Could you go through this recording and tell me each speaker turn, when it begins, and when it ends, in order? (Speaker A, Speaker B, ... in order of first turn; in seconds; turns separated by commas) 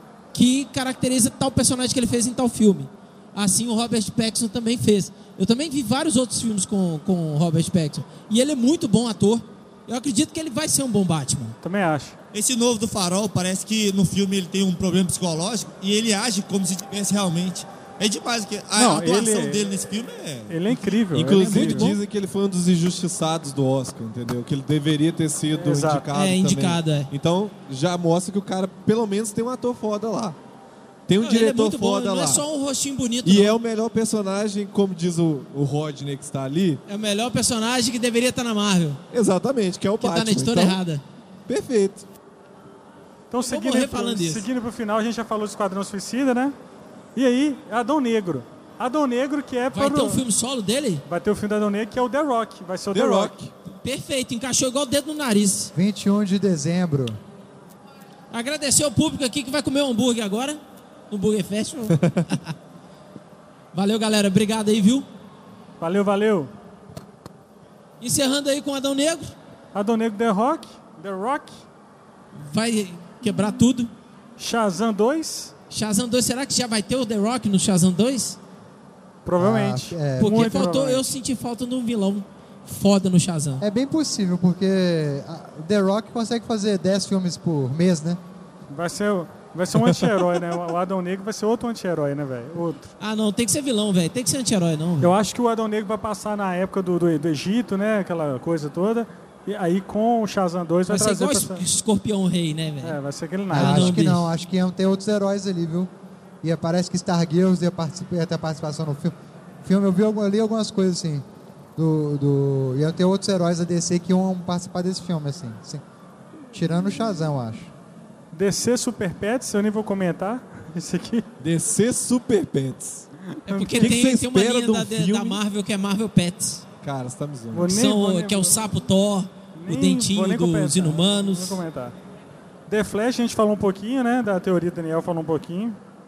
Speaker A: 0.3-11.6, Speaker B: 11.6-12.2, Speaker C: 12.3-21.0, Speaker B: 18.8-19.7, Speaker B: 20.5-21.9, Speaker D: 21.1-30.4, Speaker A: 21.4-22.0, Speaker B: 25.5-26.1, Speaker A: 26.1-27.1, Speaker D: 31.1-32.5, Speaker A: 31.2-33.6, Speaker D: 33.2-36.8, Speaker A: 36.9-39.0, Speaker D: 39.1-40.8, Speaker A: 40.0-41.0, Speaker D: 41.5-42.1, Speaker B: 43.3-46.5, Speaker A: 43.5-44.5, Speaker B: 47.2-50.2, Speaker A: 49.7-51.0, Speaker B: 51.1-53.3, Speaker D: 52.9-53.5, Speaker A: 53.7-55.7, Speaker E: 55.8-57.2, Speaker A: 58.3-62.5, Speaker D: 61.9-62.2, Speaker A: 63.7-65.1, Speaker B: 65.8-66.5, Speaker A: 68.0-69.3, Speaker B: 69.8-71.5, Speaker A: 72.4-73.9, Speaker B: 74.4-75.5, Speaker A: 75.7-78.4, Speaker B: 79.2-81.1, Speaker E: 79.4-80.5, Speaker A: 80.2-83.6, Speaker E: 83.6-88.2, Speaker B: 88.7-92.9, Speaker A: 93.0-95.2, Speaker B: 95.0-101.6, Speaker A: 100.9-103.0, Speaker B: 102.8-104.0, Speaker E: 103.5-105.9, Speaker A: 103.5-104.3, Speaker E: 106.4-111.2, Speaker E: 111.8-115.8, Speaker E: 116.5-117.7, Speaker B: 118.3-121.3, Speaker D: 121.4-123.1, Speaker B: 123.3-124.0, Speaker A: 123.5-126.6, Speaker D: 123.8-125.4, Speaker D: 126.8-127.7, Speaker B: 127.5-128.7, Speaker A: 127.6-131.6, Speaker B: 129.6-131.9, Speaker B: 132.7-135.8